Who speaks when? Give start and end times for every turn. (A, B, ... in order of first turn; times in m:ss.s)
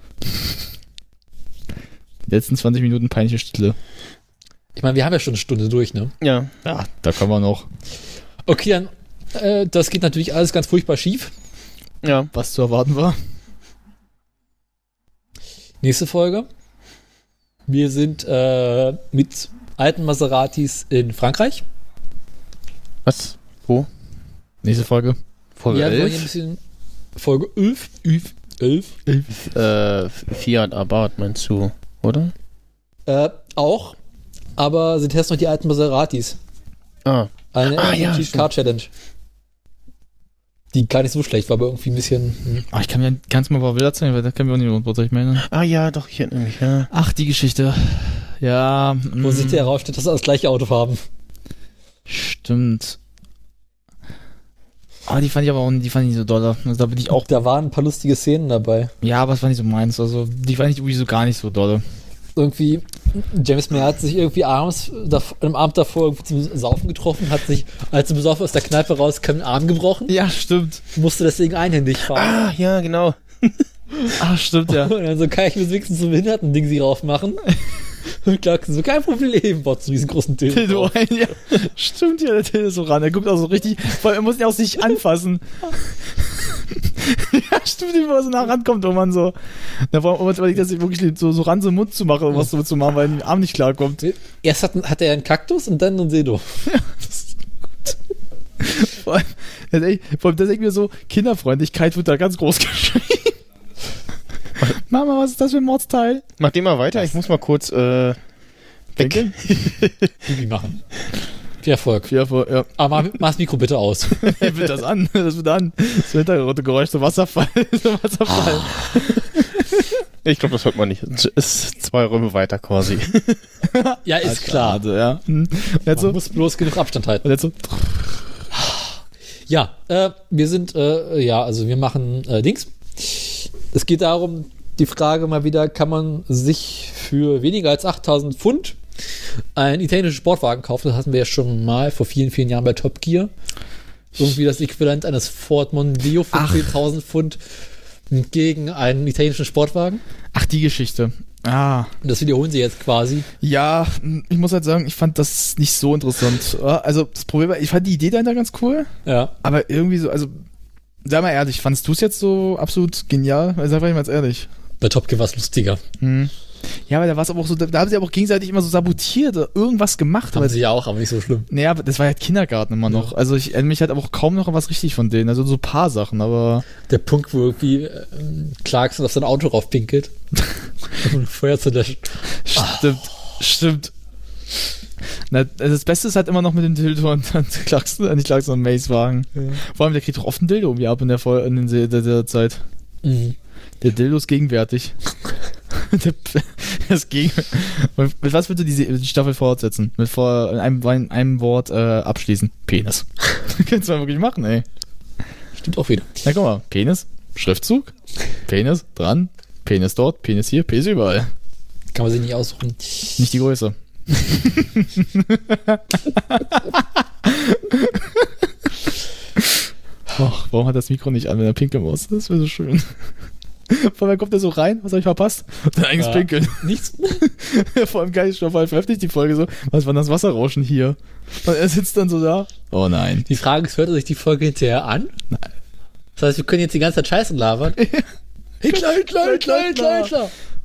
0:02.3-0:03.8 A
0:04.8-0:06.1 B
0:06.2-0:06.5 C
0:06.6-0:07.7 A
0:08.5-0:11.3 B
0:12.0-0:12.3 C
0:12.3-0:13.2 A
0:15.8-0:16.5 B
0:17.7-0:21.6 B
0:23.1-0:23.9 C
0:24.6-0:25.2 A
0:25.6-0:26.3 C
0:25.7-0:26.6 B
0:27.2-0:29.0 B
0:29.1-0:29.4 A
0:29.5-0:32.3 C
0:33.1-0:34.0 B
0:34.6-0:36.4 B
0:37.0-0:38.5 C
0:37.5-0:38.9 B
0:40.7-0:42.7 B
0:42.7-0:45.5 A
0:45.4-0:46.9 C
0:46.9-0:49.7 A
0:49.2-0:51.0 B
0:52.1-0:53.0 A
0:55.1-0:57.3 A
0:57.2-0:58.9 B
0:59.0-1:01.8 A
1:02.4-1:10.2 B
1:10.1-1:10.8 A
1:10.9-1:12.4 B
1:12.1-1:13.6 C
1:14.2-1:14.9 A
1:14.7-1:17.5 B
1:18.1-1:20.9 B
1:20.5-1:34.0 A
1:34.0-1:36.6 B
1:36.7-1:37.9 A
1:38.6-1:43.4 A
1:44.7-1:46.2 A
1:46.4-1:48.2 C
1:49.0-1:49.4 A
1:49.0-1:50.1 C
1:50.2-1:50.8 B
1:51.6-1:52.1 B
1:52.1-1:52.7 A
1:52.8-1:54.4 B
1:54.2-1:59.9 A
2:00.2-2:03.4 C
2:03.7-2:06.2 A
2:04.0-2:04.8 B
2:05.9-2:07.2 B
2:07.2-2:08.2 A
2:08.5-2:18.8 B
2:19.6-2:23.3 B
2:24.2-2:27.4 B
2:26.3-2:26.7 A
2:28.1-2:30.0 B
2:30.3-2:31.9 A
2:32.0-2:33.3 B
2:33.4-2:38.9 A
2:39.1-2:39.3 B
2:39.4-2:40.3 A
2:41.0-2:44.5 A
2:44.8-2:45.8 B
2:46.0-2:46.3 A
2:46.9-2:50.6 A
2:50.3-2:51.5 B
2:51.5-2:56.7 A
2:56.9-3:00.1 B
3:01.0-3:02.9 B
3:02.4-3:03.9 A
3:05.3-3:12.6 A
3:13.0-3:13.4 B
3:13.8-3:15.0 A
3:15.7-3:24.6 A
3:25.6-3:26.1 B
3:26.2-3:27.9 A
3:28.5-3:31.3 A
3:31.9-3:33.2 B
3:33.2-3:38.3 A
3:39.4-3:42.9 A
3:43.7-3:53.3 A
3:46.0-3:47.3 B
3:53.3-3:55.1 B
3:56.2-3:57.8 B
3:57.8-3:58.1 A
3:58.6-4:00.3 B
3:58.7-4:00.1 A